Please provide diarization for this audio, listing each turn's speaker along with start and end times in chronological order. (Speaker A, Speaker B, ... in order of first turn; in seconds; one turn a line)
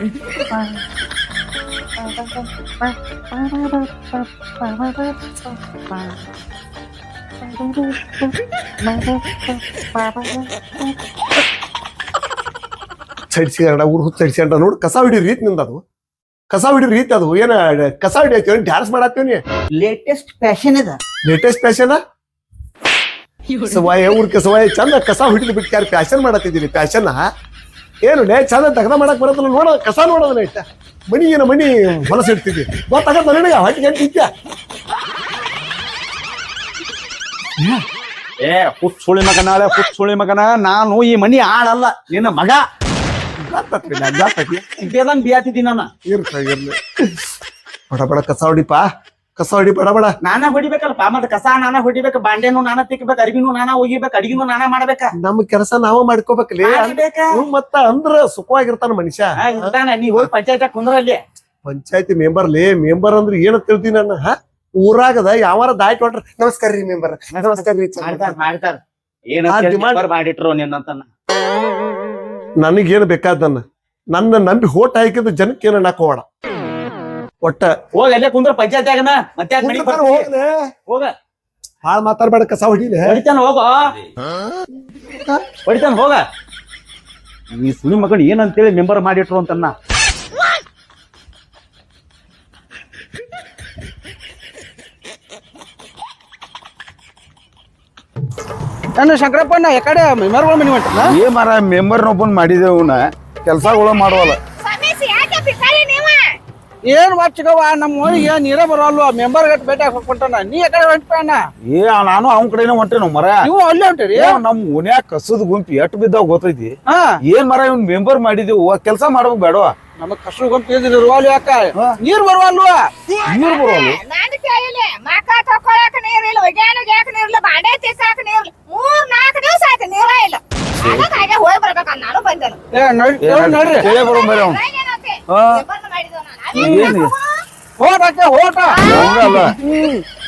Speaker A: 0.3-0.6
Speaker A: 3.3-3.8
Speaker A: 4.6-5.1
Speaker A: 10.0-10.3
Speaker B: 13.3-15.8
Speaker B: 16.5-19.4
Speaker A: 19.8-21.0
Speaker B: 21.3-22.0
Speaker B: 23.6-27.3
Speaker B: 28.1-34.3
Speaker A: 38.4-42.6
Speaker B: 43.5-44.9
Speaker A: 44.8-45.9
Speaker B: 46.0-47.2
Speaker B: 47.9-50.2
Speaker A: 50.2-55.1
Speaker B: 55.2-60.3
Speaker A: 56.6-57.4
Speaker A: 59.4-61.2
Speaker B: 61.6-68.5
Speaker A: 68.0-68.8
Speaker A: 69.3-71.1
Speaker B: 69.5-70.0
Speaker B: 72.6-76.3
Speaker B: 77.4-77.8
Speaker A: 77.9-80.3
Speaker B: 79.6-80.7
Speaker B: 81.8-83.2
Speaker A: 83.0-83.9
Speaker B: 85.0-85.4
Speaker A: 85.7-86.2
Speaker A: 87.5-89.8
Speaker C: 99.0-101.2
Speaker D: 101.0-104.4
Speaker E: 104.6-106.3
Speaker C: 106.9-111.4
Speaker D: 111.7-113.5
Speaker C: 113.4-114.4
Speaker D: 114.2-119.8
Speaker C: 116.9-117.2
Speaker C: 120.0-122.9
Speaker D: 123.2-124.0
Speaker E: 123.3-132.6
Speaker D: 130.8-131.1
Speaker C: 132.7-133.9
Speaker D: 133.2-134.6
Speaker E: 133.8-137.3
Speaker D: 135.3-135.6
Speaker D: 136.5-137.2
Speaker C: 136.6-137.0
Speaker C: 137.8-139.7
Speaker E: 138.7-139.6
Speaker D: 138.8-140.0